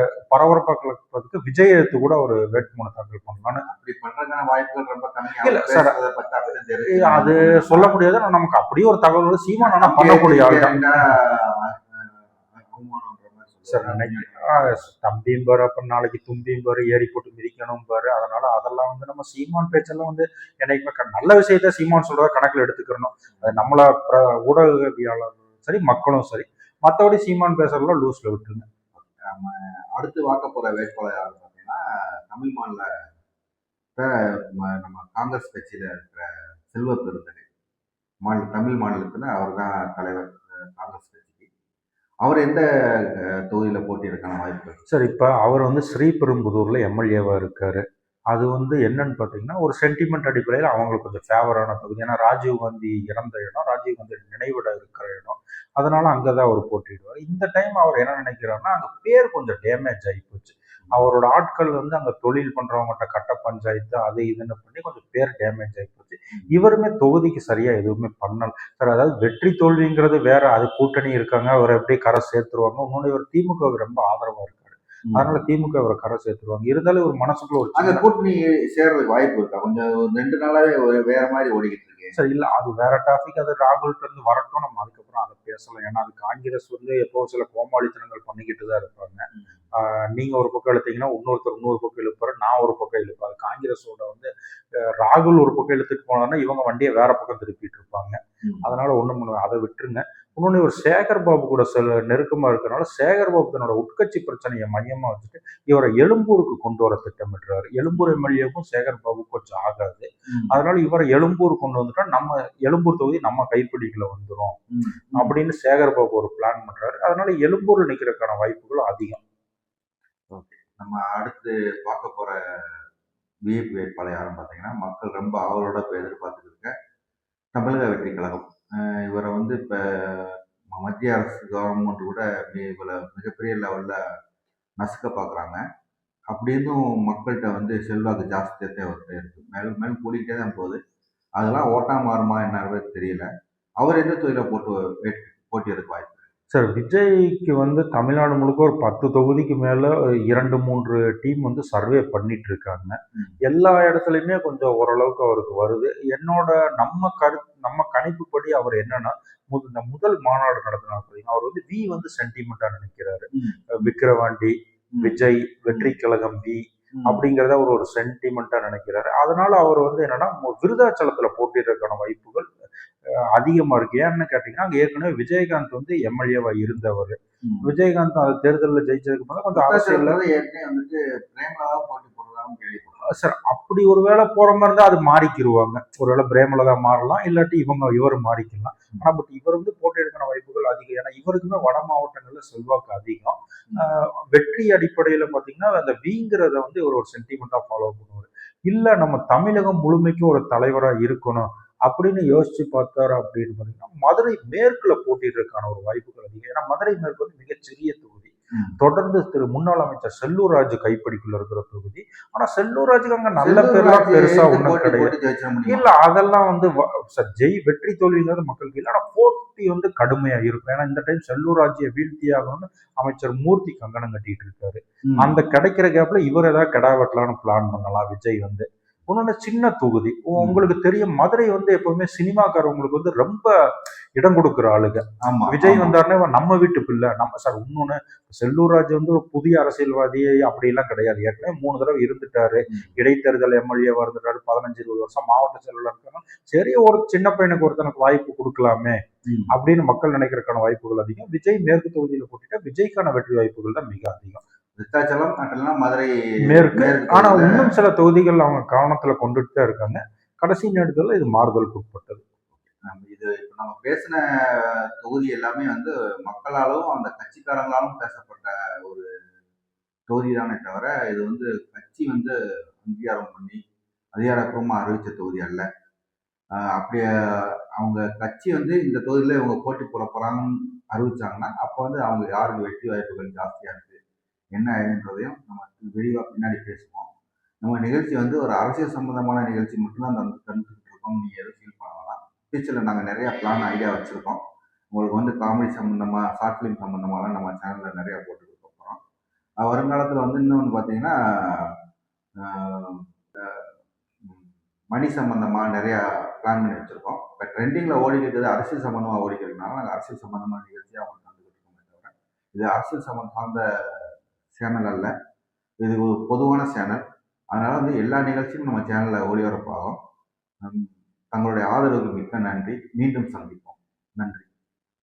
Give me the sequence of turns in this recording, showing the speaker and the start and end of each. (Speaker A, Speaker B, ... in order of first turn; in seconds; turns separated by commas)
Speaker A: 0.3-3.6, Speaker B: 3.6-8.0, Speaker A: 5.4-5.9, Speaker A: 6.8-11.1, Speaker B: 9.6-14.8, Speaker A: 13.7-28.6, Speaker B: 29.0-33.1, Speaker B: 34.6-37.4, Speaker B: 38.2-41.5, Speaker B: 42.2-42.6, Speaker B: 43.4-44.8, Speaker A: 44.9-78.0, Speaker B: 75.1-75.4, Speaker B: 77.7-82.1, Speaker A: 82.1-114.6, Speaker B: 98.4-98.7, Speaker B: 107.9-108.3, Speaker B: 110.3-110.5, Speaker B: 114.7-115.3, Speaker A: 115.1-119.2, Speaker B: 120.3-122.8, Speaker B: 123.5-126.7, Speaker B: 127.5-134.0, Speaker B: 134.8-135.6, Speaker B: 136.3-140.8, Speaker B: 141.4-143.3, Speaker B: 143.8-146.3, Speaker A: 146.5-172.4, Speaker B: 163.3-164.0, Speaker A: 173.3-180.2, Speaker B: 177.4-177.7, Speaker B: 179.5-183.1, Speaker A: 183.1-215.1, Speaker B: 213.4-215.9, Speaker A: 215.7-233.5, Speaker B: 225.1-225.3, Speaker B: 230.4-230.7, Speaker A: 234.2-249.0, Speaker B: 235.2-235.9, Speaker A: 249.5-254.4, Speaker B: 254.8-257.7, Speaker A: 256.5-262.2, Speaker B: 262.6-269.1, Speaker B: 270.1-273.6, Speaker B: 274.1-275.7, Speaker B: 276.6-284.0, Speaker B: 284.5-287.1, Speaker B: 287.6-294.4, Speaker B: 294.9-299.0, Speaker B: 299.6-301.8, Speaker B: 302.4-315.1, Speaker B: 315.8-320.0, Speaker B: 320.6-324.4